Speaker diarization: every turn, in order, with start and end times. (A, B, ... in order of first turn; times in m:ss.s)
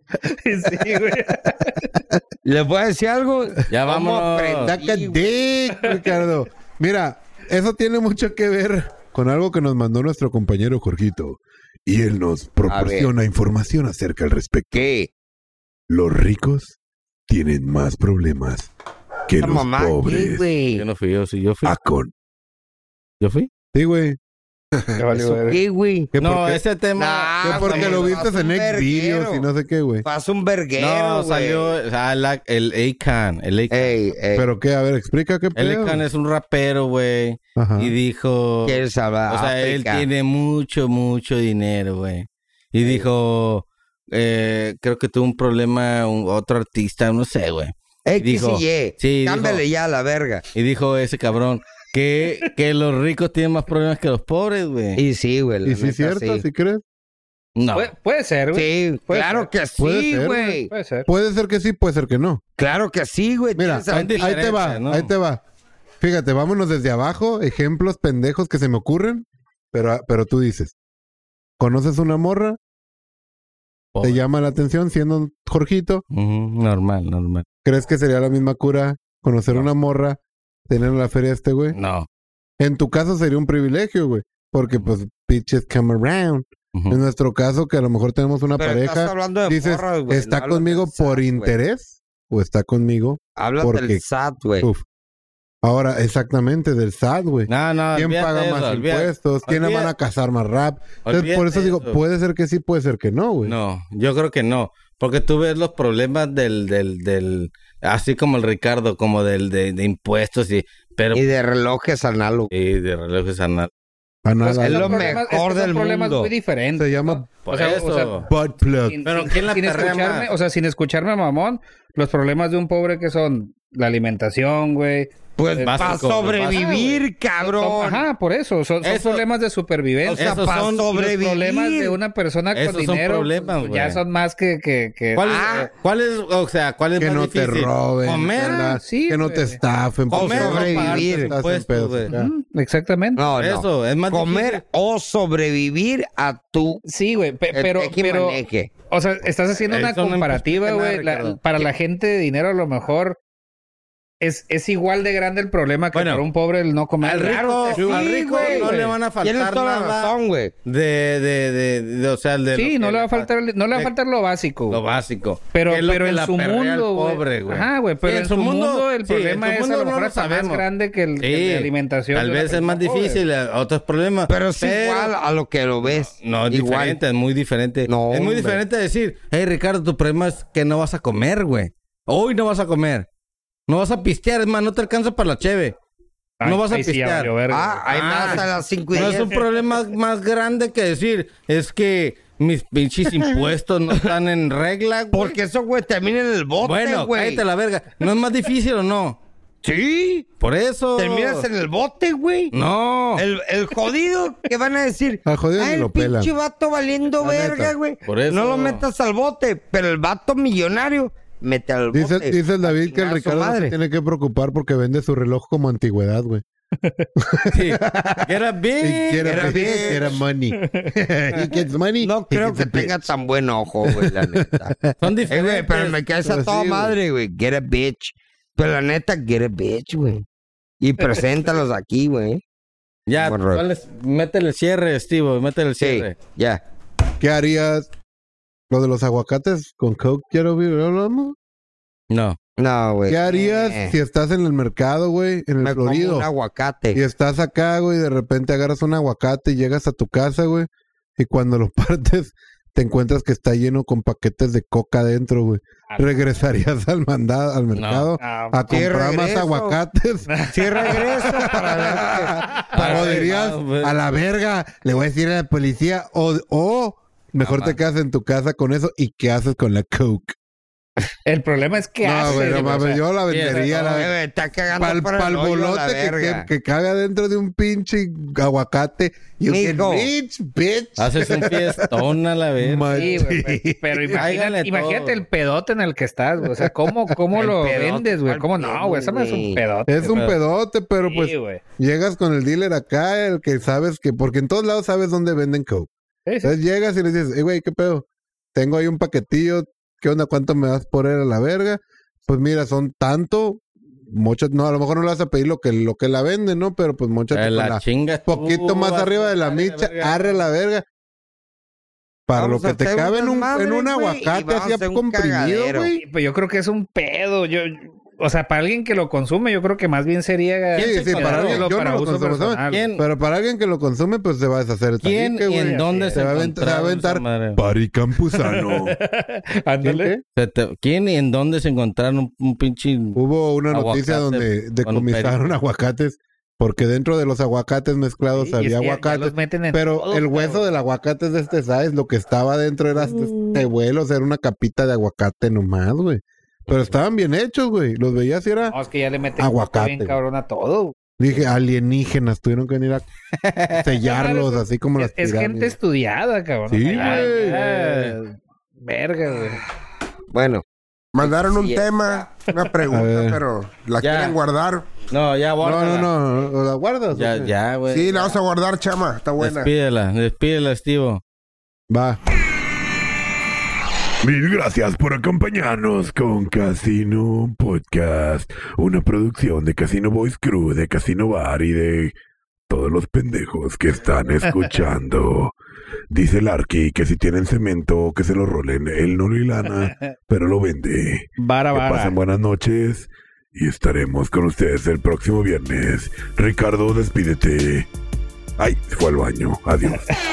0:00.2-0:02.0 A
0:02.4-0:05.5 B
0:03.7-0:04.8 C
0:04.6-0:14.9 D
0:11.9-0:12.7 E
0:12.7-0:13.1 B
0:14.7-0:15.1 B
0:15.9-0:16.2 E
0:16.2-0:16.7 D
0:17.3-0:18.1 E
0:18.0-0:18.7 D
0:19.3-0:20.5 E
0:19.4-0:20.8 B
0:20.7-0:21.8 C
0:21.6-0:22.1 E
0:23.2-0:23.5 C
0:23.7-0:24.2 D
0:25.0-0:25.6 A
0:25.4-0:26.1 B
0:26.1-0:26.6 D
0:26.2-0:28.2 C
0:27.0-0:29.5 B
0:27.4-0:30.0 D
0:30.0-0:31.7 B
0:30.8-0:33.9 C
0:33.7-0:34.5 B
0:34.3-0:36.0 D
0:35.6-0:49.6 C
0:37.6-0:37.9 D
0:38.6-0:40.0 B
0:48.0-0:50.4 B
0:50.5-0:55.0 C
0:55.0-0:56.4 B
0:55.6-0:56.8 D
0:57.6-0:57.9 C
0:57.7-0:59.5 A
0:58.5-1:00.7 B
0:59.8-1:00.5 D
1:00.6-1:01.1 A
1:01.1-1:02.4 D
1:02.6-1:04.4 B
1:03.6-1:05.4 D
1:03.9-1:05.1 C
1:06.0-1:10.7 D
1:11.6-1:12.6 D
1:13.9-1:14.2 C
1:14.0-1:16.0 D
1:16.1-1:17.4 C
1:17.6-1:21.8 D
1:21.7-1:22.1 C
1:22.6-1:34.0 D
1:26.7-1:27.0 C
1:28.6-1:31.6 B
1:33.4-1:34.7 B
1:35.6-1:43.6 D
1:37.5-1:39.9 C
1:41.0-1:42.0 C
1:43.4-1:51.2 C
1:51.1-1:52.5 B
1:52.5-1:53.7 C
1:54.2-1:55.2 D
1:54.4-1:58.3 A
1:54.6-1:56.3 B
1:56.8-1:57.2 D
1:57.4-1:58.3 C
1:58.3-1:59.0 D
1:58.8-2:05.9 A
1:59.0-2:00.3 C
2:05.4-2:08.0 B
2:05.6-2:07.0 C
2:07.4-2:10.4 A
2:08.8-2:09.2 C
2:10.0-2:12.0 B
2:10.1-2:11.1 C
2:11.0-2:15.5 A
2:12.5-2:14.0 C
2:15.1-2:18.8 C
2:15.2-2:15.7 B
2:17.0-2:22.3 D
2:18.4-2:19.6 A
2:20.1-2:21.3 B
2:20.1-2:22.1 C
2:22.1-2:23.2 A
2:23.2-2:26.8 B
2:23.4-2:24.6 C
2:26.8-2:33.2 A
2:27.5-2:28.7 B
2:29.7-2:31.6 C
2:34.2-2:39.0 A
2:35.9-2:36.2 C
2:37.0-2:40.1 C
2:37.2-2:40.5 B
2:40.6-2:43.9 C
2:42.5-2:44.8 A
2:44.7-2:50.7 C
2:45.5-2:53.2 A
2:51.2-2:55.1 C
2:54.3-2:57.0 B
2:55.8-3:03.1 C
2:57.9-2:58.6 B
3:03.7-3:05.7 C
3:06.4-3:08.3 A
3:06.4-3:07.3 C
3:07.5-3:09.4 B
3:07.9-3:15.4 C
3:15.1-3:17.4 B
3:16.6-3:19.2 C
3:19.6-3:20.3 B
3:20.4-3:21.5 C
3:21.0-3:22.5 B
3:22.5-3:23.2 C
3:23.2-3:33.8 B
3:25.2-3:26.3 D
3:27.2-3:27.7 D
3:28.0-3:28.8 C
3:31.9-3:36.4 D
3:36.8-3:37.1 A
3:37.2-3:38.3 D
3:37.5-3:40.0 C
3:38.8-3:43.1 D
3:39.2-3:40.2 B
3:40.6-3:41.5 A
3:42.0-3:44.7 B
3:43.8-3:45.0 D
3:45.0-3:46.0 C
3:45.3-3:50.2 B
3:46.2-3:47.0 D
3:50.8-3:52.4 B
3:53.1-3:56.2 C
3:53.2-3:53.6 B
3:55.8-3:56.6 B
3:57.2-3:57.9 D
3:58.7-4:01.4 D
4:02.1-4:02.4 C
4:02.6-4:03.9 B
4:03.1-4:06.3 D
4:05.6-4:07.0 B
4:06.9-4:20.5 D
4:17.7-4:18.2 C
4:18.2-4:18.8 A
4:18.7-4:19.8 B
4:20.3-4:21.1 A
4:20.5-4:23.3 B
4:21.2-4:30.3 D
4:22.8-4:24.0 C
4:27.4-4:27.8 C
4:31.2-4:33.6 A
4:32.0-4:34.1 D
4:32.2-4:34.1 C
4:33.9-4:36.5 B
4:34.7-4:42.1 D
4:39.5-4:40.1 B
4:41.0-4:43.2 C
4:42.6-4:44.2 D
4:42.9-4:50.3 A
4:44.1-4:45.2 C
4:47.3-4:49.6 B
4:49.9-4:55.9 D
4:50.0-4:50.4 C
4:51.0-4:51.6 A
4:56.2-4:56.5 A
4:56.4-5:10.8 D
5:07.3-5:10.3 C
5:12.3-5:16.0 D
5:12.3-5:15.9 B
5:16.0-5:22.9 A
5:20.7-5:21.6 C
5:20.8-5:27.2 D
5:22.7-5:23.0 C
5:25.0-5:27.6 C
5:25.5-5:26.4 A
5:27.6-5:29.0 E
5:28.1-5:28.4 D
5:28.3-5:30.1 A
5:29.8-5:30.2 D
5:30.3-5:33.2 C
5:33.1-5:48.8 D
5:33.7-5:35.5 C
5:38.3-5:40.7 A
5:48.7-5:50.9 A
5:49.4-5:50.2 D
5:51.2-5:53.0 D
5:53.4-5:53.9 C
5:53.8-5:55.7 D
5:54.0-5:59.6 A
5:56.7-5:57.6 D
5:56.9-5:58.1 C
6:00.3-6:00.6 B
6:01.1-6:04.9 F
6:01.2-6:02.3 B
6:02.9-6:03.4 D
6:04.0-6:04.3 C
6:05.1-6:06.1 C
6:05.6-6:07.5 D
6:07.1-6:08.4 C
6:07.9-6:09.7 F
6:09.4-6:11.2 C
6:11.9-6:12.2 D
6:14.2-6:22.1 E
6:22.7-6:25.5 E
6:26.1-6:37.9 E
6:29.7-6:30.0 A
6:31.4-6:32.2 A
6:38.6-6:40.1 E